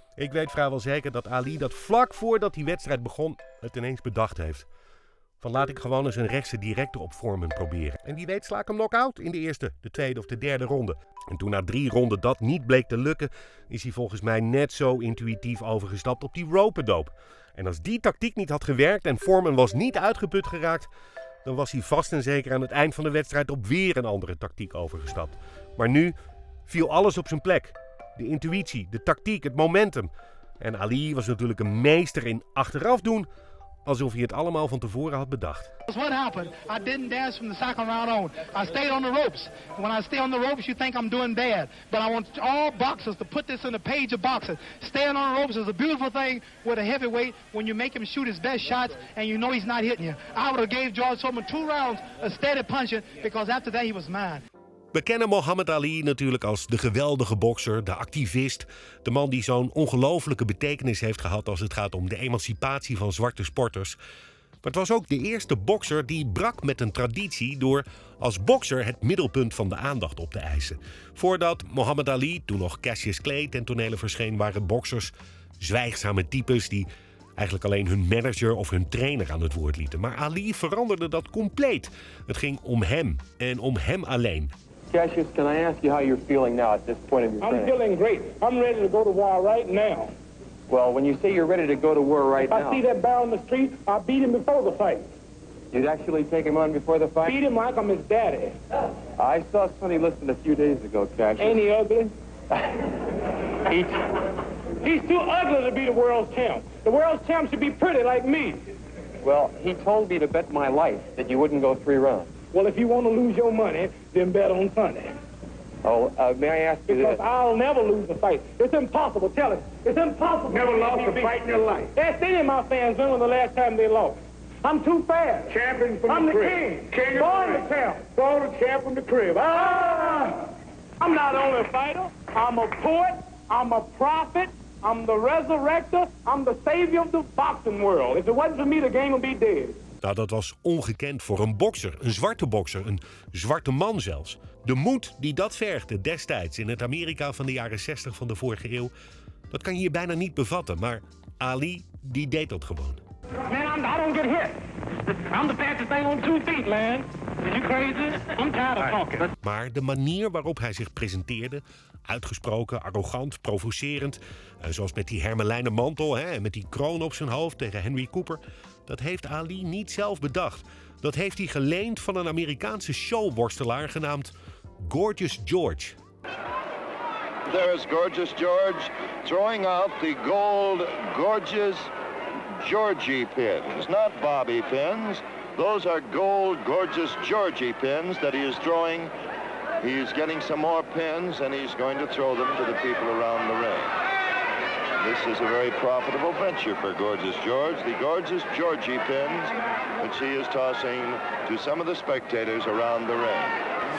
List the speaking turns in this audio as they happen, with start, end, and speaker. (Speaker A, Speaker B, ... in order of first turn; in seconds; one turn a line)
Speaker A: 0.2-4.7
Speaker A: 5.4-20.9
Speaker A: 21.4-26.1
Speaker A: 26.7-33.3
Speaker A: 33.9-35.7
Speaker B: 35.9-54.4
Speaker A: 54.9-64.0
Speaker A: 64.6-84.5
Speaker C: 84.9-87.8
Speaker D: 87.4-90.1
Speaker C: 90.7-92.8
Speaker D: 92.4-95.1
Speaker C: 95.7-97.4
Speaker D: 97.2-98.6
Speaker C: 99.2-101.6
Speaker D: 101.4-102.1
Speaker D: 104.8-108.7
Speaker C: 109.2-112.4
Speaker D: 112.5-115.2
Speaker C: 115.8-117.2
Speaker D: 116.9-130.4
Speaker D: 131.0-139.8
Speaker A: 140.0-148.9
Speaker A: 149.5-153.0
Speaker D: 153.5-154.5
Speaker D: 155.1-159.3
Speaker A: 159.4-176.0
Speaker E: 177.5-181.9
Speaker E: 182.6-189.1
Speaker E: 189.8-193.9
Speaker E: 195.0-203.6